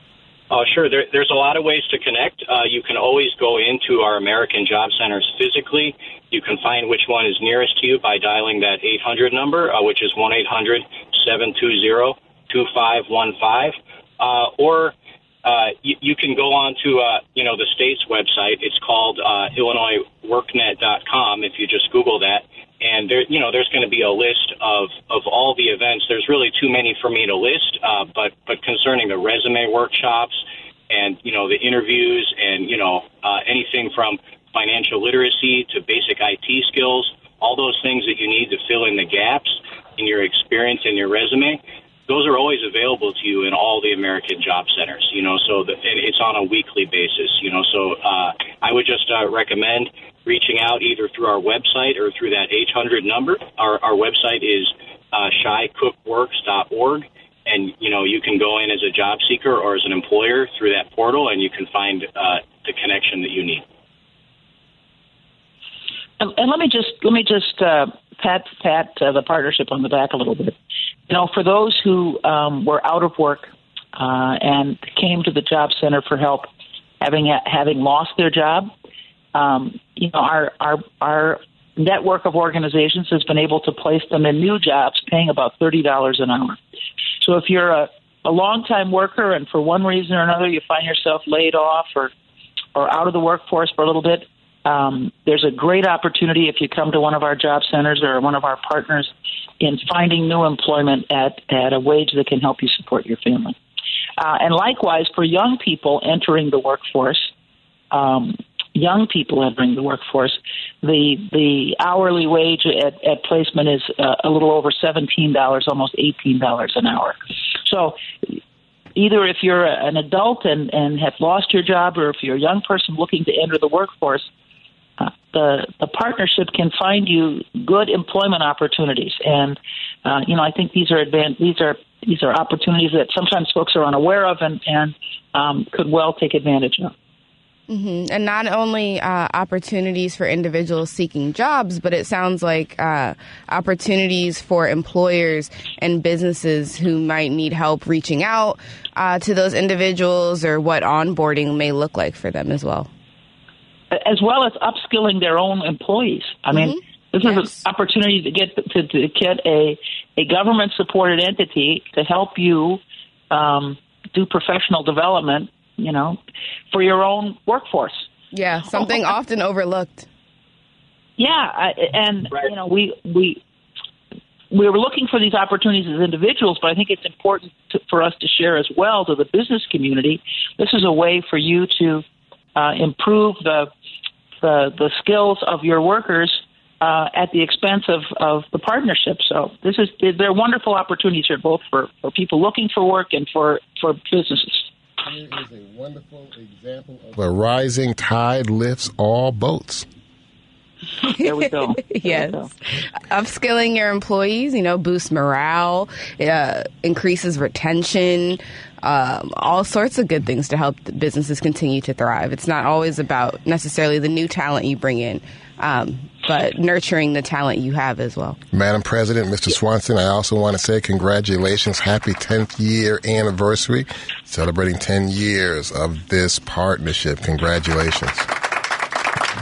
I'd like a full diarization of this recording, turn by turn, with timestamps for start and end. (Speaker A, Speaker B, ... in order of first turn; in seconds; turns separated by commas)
Speaker A: 0.5-63.6, Speaker B: 66.2-70.5, Speaker B: 71.1-76.5, Speaker B: 77.0-78.7, Speaker B: 79.3-86.6, Speaker B: 87.2-92.1, Speaker B: 92.7-103.5, Speaker B: 104.2-107.3, Speaker B: 107.9-118.4, Speaker B: 118.9-124.3, Speaker B: 125.0-136.9, Speaker C: 137.7-152.9, Speaker B: 153.9-166.2, Speaker B: 166.7-168.1, Speaker C: 168.3-170.1, Speaker B: 171.2-173.4, Speaker B: 174.5-182.0, Speaker B: 182.5-183.7, Speaker B: 184.4-194.7, Speaker D: 195.0-199.9, Speaker B: 201.2-202.5, Speaker C: 201.8-218.4, Speaker D: 218.5-228.3